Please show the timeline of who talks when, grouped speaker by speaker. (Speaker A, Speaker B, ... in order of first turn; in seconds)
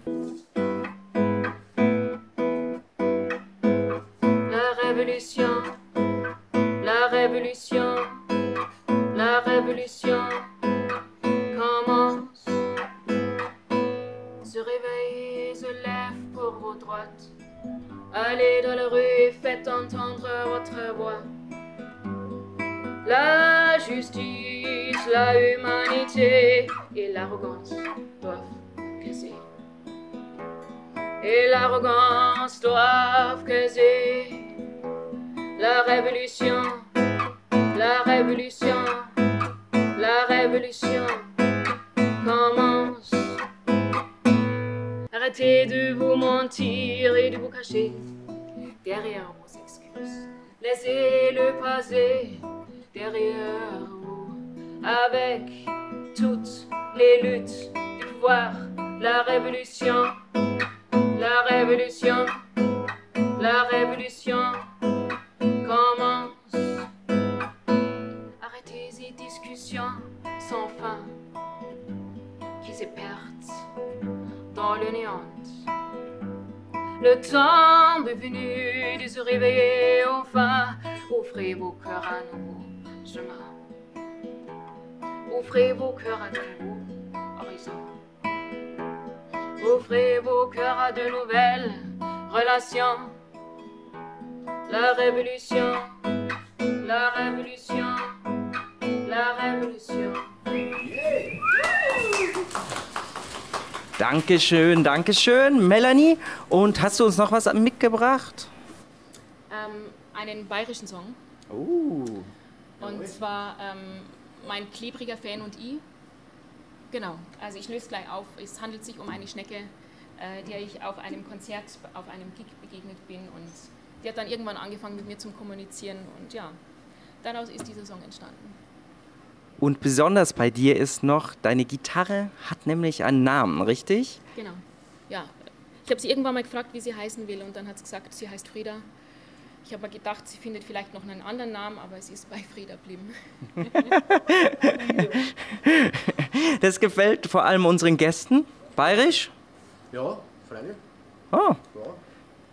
Speaker A: 4.5-5.8, 6.8-8.2, 9.1-10.5, 11.5-12.7, 14.4-17.3, 18.1-21.3, 23.0-29.4, 31.2-34.5, 35.6-36.9, 37.7-39.1, 40.0-41.3, 42.2-43.4, 45.1-48.1, 48.8-60.2, 61.1-62.4, 63.4-64.7, 65.6-66.9, 68.4-71.2, 72.6-73.7, 74.5-75.7, 77.0-83.6, 85.3-87.9, 89.6-93.2, 94.7-96.0, 96.8-98.2, 99.0-100.3, 109.5-111.2, 112.8-115.8, 116.9-126.6, 127.2-128.6, 134.3-138.9, 139.6-143.9
Speaker B: 100.8-101.3, 144.6-145.2, 149.9-150.8, 151.7-152.0
Speaker C: 104.0-108.5, 111.5-112.3, 129.6-134.2, 143.9-144.7, 145.2-149.3, 151.3-151.6